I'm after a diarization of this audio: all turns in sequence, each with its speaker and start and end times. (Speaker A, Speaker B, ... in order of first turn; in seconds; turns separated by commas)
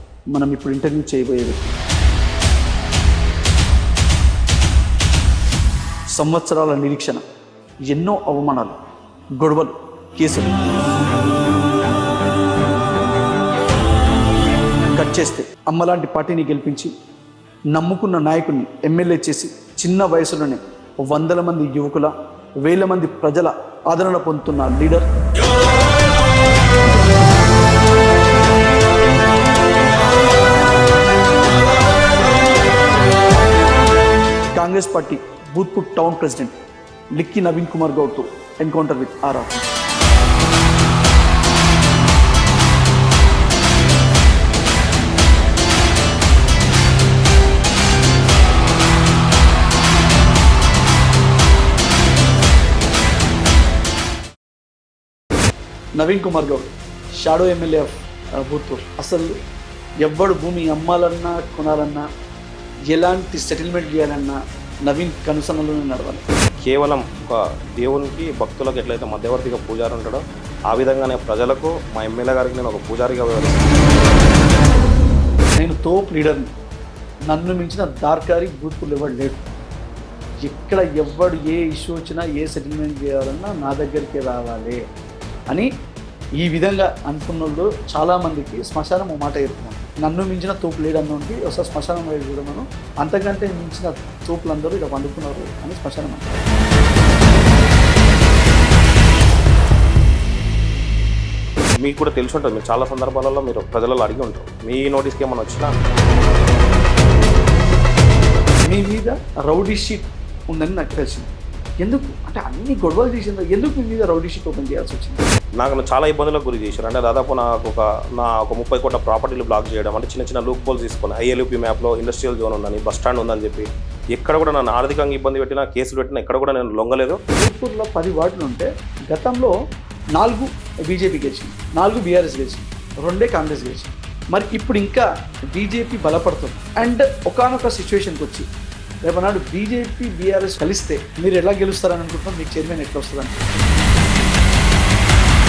Speaker A: 0.3-1.7, Speaker A: 6.2-7.2, Speaker A: 7.9-8.8, Speaker A: 9.4-10.5, Speaker A: 14.9-16.9, Speaker A: 17.7-22.1, Speaker A: 22.7-25.1, Speaker A: 34.5-36.5, Speaker A: 37.2-39.7, Speaker A: 56.0-56.7, Speaker A: 57.2-57.9, Speaker A: 58.5-59.4, Speaker A: 60.0-62.0, Speaker A: 62.9-66.2, Speaker B: 66.6-73.7, Speaker A: 75.6-76.5, Speaker A: 77.3-79.4, Speaker A: 80.4-84.8, Speaker A: 86.4-96.2, Speaker B: 101.8-105.7, Speaker A: 108.7-111.3, Speaker A: 111.8-115.2, Speaker B: 115.6-127.2, Speaker A: 127.4-129.5, Speaker A: 130.2-138.5, Speaker A: 139.1-143.4